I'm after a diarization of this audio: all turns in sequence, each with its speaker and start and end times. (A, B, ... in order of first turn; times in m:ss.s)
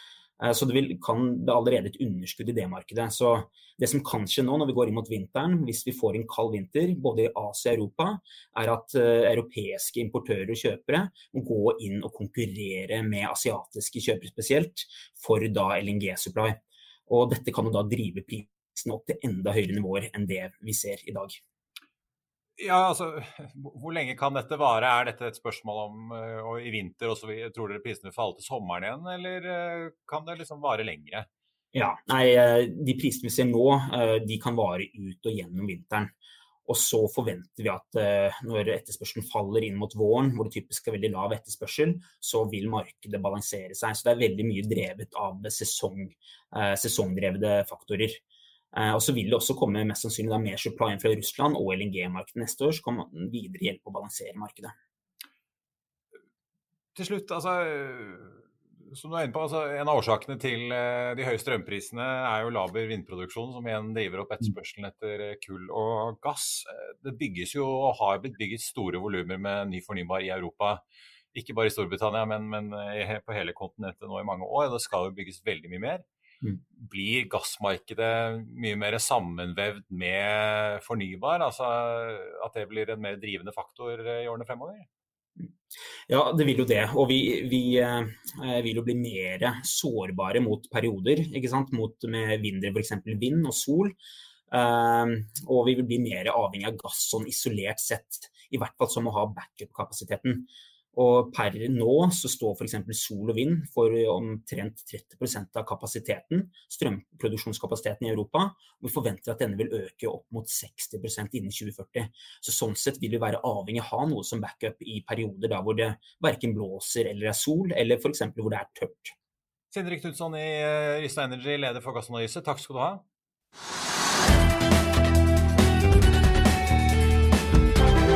0:00.4-0:21.4 A
0:22.6-0:31.3 B
0:31.7-0:36.1 A
0:36.7-0:48.2 A
0:48.7-0:54.7 A
0:56.9-0:58.4 B
0:58.9-1:10.8 B
1:11.3-1:16.0 B
1:16.8-1:24.8 B
1:26.1-1:34.0 A
1:34.5-1:59.1 A
1:59.7-2:03.0 B